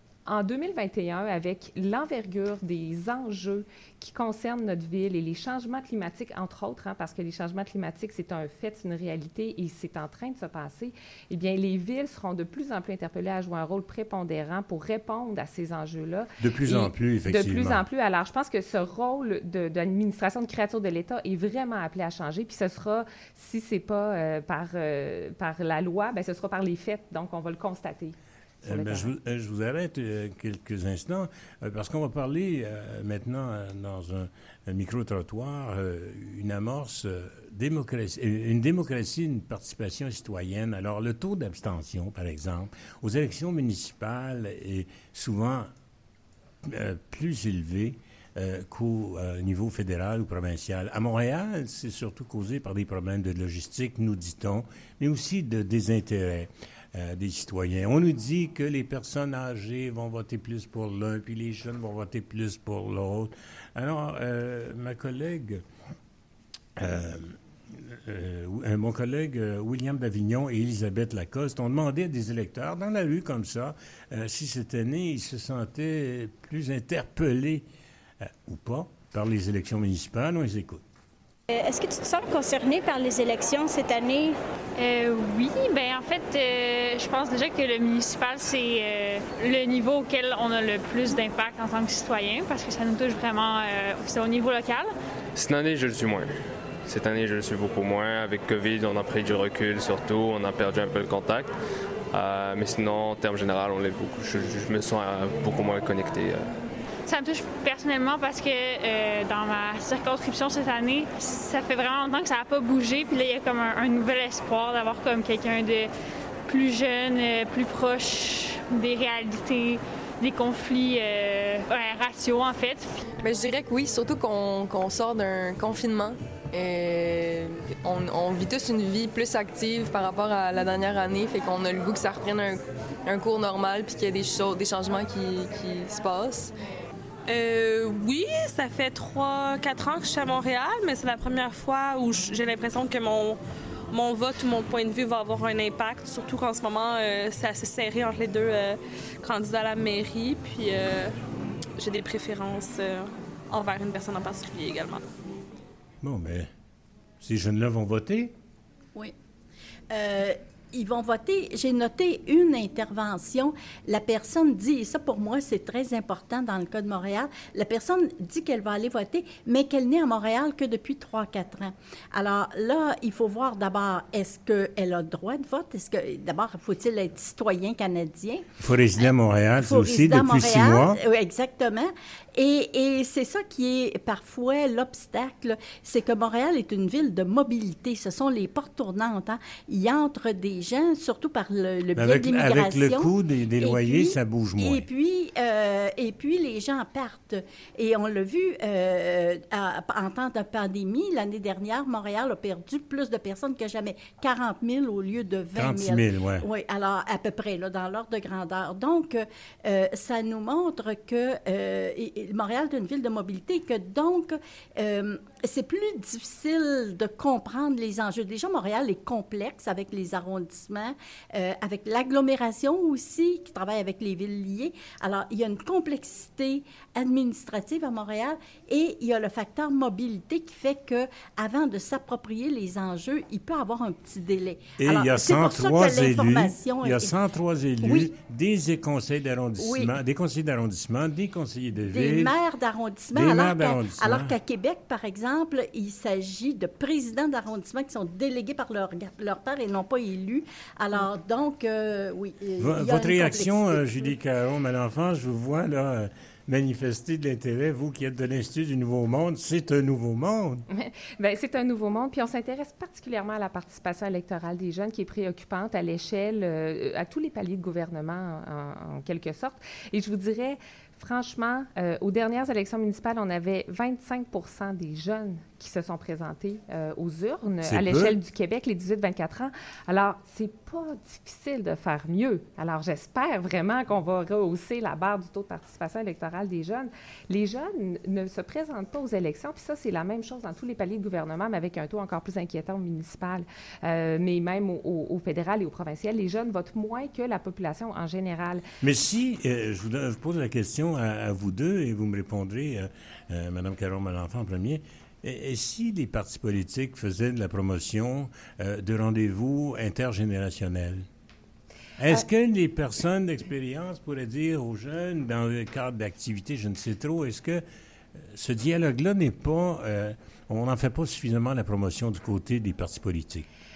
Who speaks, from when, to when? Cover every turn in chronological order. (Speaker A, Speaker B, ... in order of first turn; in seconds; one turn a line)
Speaker A: 0.2-29.1
Speaker B: 16.4-17.8
Speaker B: 28.6-45.7
Speaker B: 46.6-65.6
Speaker B: 66.8-77.6
Speaker B: 78.3-80.8
Speaker C: 81.5-84.4
Speaker D: 84.8-94.9
Speaker E: 95.3-96.3
Speaker E: 96.9-101.5
Speaker E: 102.1-106.5
Speaker D: 107.1-115.9
Speaker D: 116.5-122.8
Speaker F: 123.2-136.5
Speaker G: 137.3-143.4
Speaker G: 143.9-151.1
Speaker G: 151.8-155.0
Speaker B: 156.0-156.5
Speaker B: 157.2-158.3
Speaker H: 159.9-178.4
Speaker B: 178.6-181.0
Speaker H: 179.6-237.1
Speaker B: 191.9-194.8
Speaker B: 205.5-206.4
Speaker B: 234.8-242.3
Speaker H: 237.8-238.1
Speaker H: 239.6-239.9
Speaker H: 241.9-254.1
Speaker B: 243.1-244.3
Speaker B: 252.6-260.6
Speaker A: 260.7-298.6
Speaker B: 277.6-278.1
Speaker B: 298.8-311.0
Speaker B: 312.0-317.6
Speaker B: 318.3-323.4